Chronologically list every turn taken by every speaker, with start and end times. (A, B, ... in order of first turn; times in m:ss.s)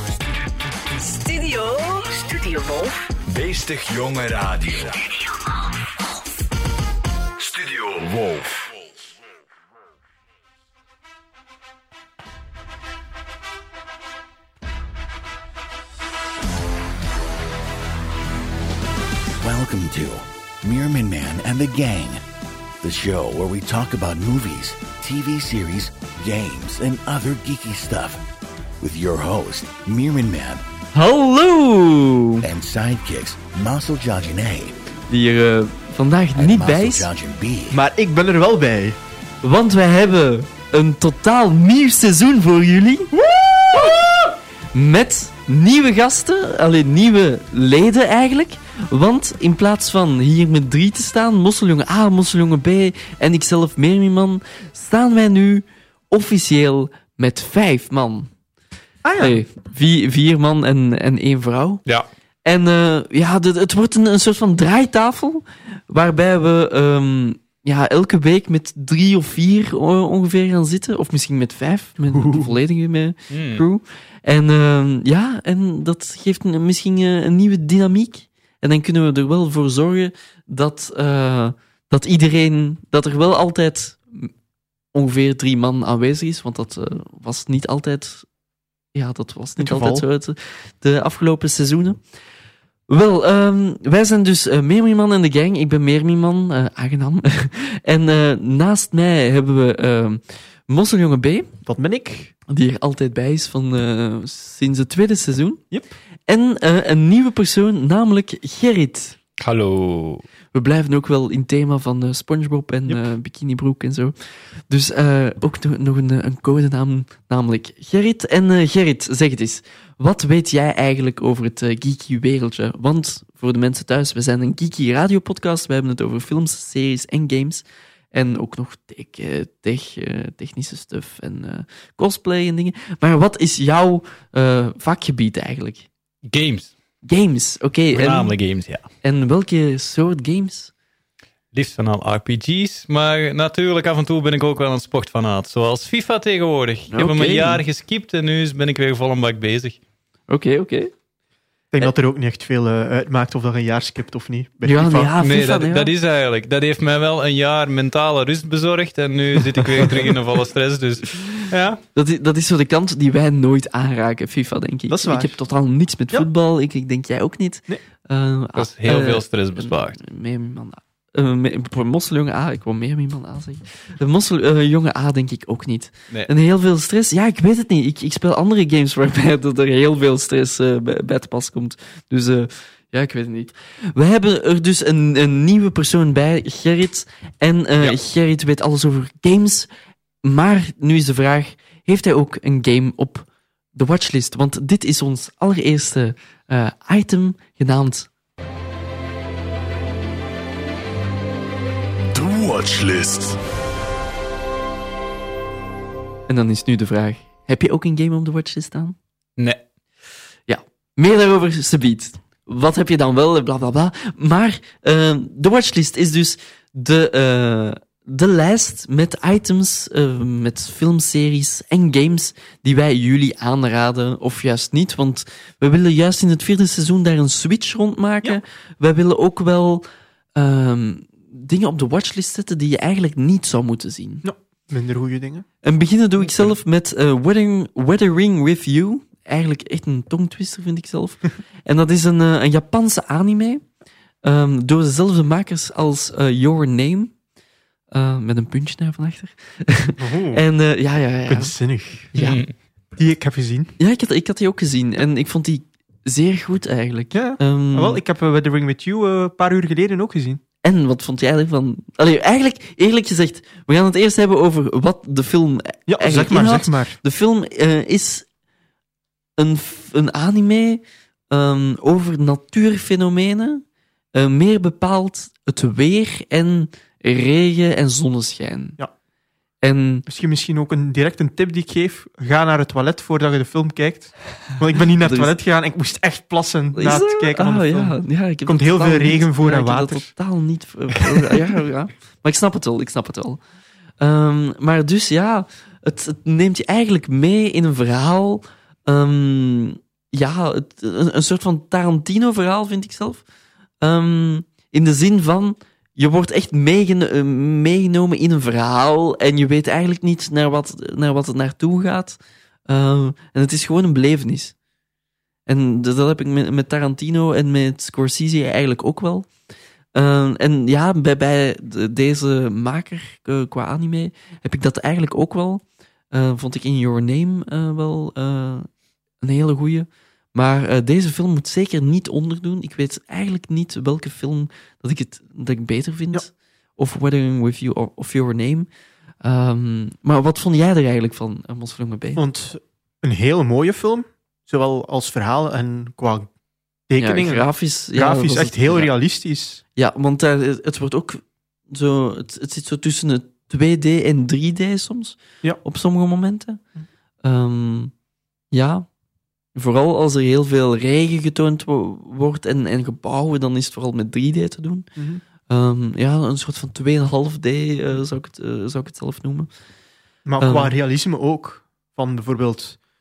0:01.0-0:03.1 A
0:03.3-0:04.9 B
0:07.4-0:08.7 B
0:19.4-0:22.2 C
0:22.8-0:28.2 C
0:28.8-0:30.6 C
0:30.9-0:32.4 D
0:32.4-0:34.8 C
0:35.1-0:37.1 D
0:36.4-0:37.8 C
0:37.7-0:39.0 E
0:39.4-0:43.1 D
0:43.1-0:44.3 E
0:44.7-0:58.3 D
0:59.0-0:59.4 E
0:59.2-1:01.8 D
1:02.4-1:24.3 D
1:12.1-1:12.6 E
1:13.3-1:13.6 F
1:24.9-1:28.3 D
1:28.9-1:32.0 D
1:29.6-1:30.0 E
1:32.9-1:41.5 D
1:41.6-1:42.3 E
1:42.5-1:45.6 D
1:46.3-1:49.2 D
1:49.4-1:50.2 F
1:50.5-1:54.2 D
1:54.7-2:15.9 D
2:16.2-2:16.7 F
2:17.0-2:18.3 D
2:17.9-2:18.9 F
2:19.0-2:20.7 D
2:21.5-2:29.8 F
2:26.9-2:27.6 D
2:30.3-2:30.9 D
2:31.7-2:35.1 E
2:34.6-2:35.9 D
2:34.9-2:41.8 F
2:42.0-3:09.7 D
2:44.9-2:45.4 E
2:48.6-2:50.0 F
3:10.2-3:18.1 D
3:22.2-3:23.3 B
3:22.4-3:23.0 C
3:26.3-3:29.0 D
3:30.5-3:49.8 D
3:50.4-3:54.2 D
3:54.2-3:55.5 E
3:55.6-4:03.6 D
3:56.2-3:56.5 E
4:04.2-4:07.1 D
4:07.9-4:11.6 D
4:10.0-4:10.4 E
4:11.3-4:12.1 E
4:12.1-4:12.4 D
4:12.2-4:12.5 F
4:13.0-4:13.7 E
4:13.8-4:18.0 D
4:17.1-4:20.4 E
4:20.6-4:28.3 D
4:25.9-4:27.0 E
4:29.4-4:33.6 D
4:34.2-4:38.8 D
4:39.6-4:40.1 D
4:40.1-4:50.1 E
4:45.0-4:45.3 D
4:46.8-4:53.4 D
4:54.0-5:03.2 D
5:03.8-5:14.6 D
5:15.5-5:19.3 D
5:19.9-5:28.7 D
5:29.2-5:38.7 D
5:39.2-5:42.2 D
5:42.2-5:46.3 E
5:46.9-5:49.6 E
5:47.0-5:48.9 D
5:49.8-5:56.6 D
5:57.2-5:57.9 D
5:58.5-5:58.9 D
5:59.6-6:04.9 D
6:05.0-6:05.2 E
6:05.5-6:09.5 D
6:10.3-6:12.8 E
6:10.4-6:10.7 D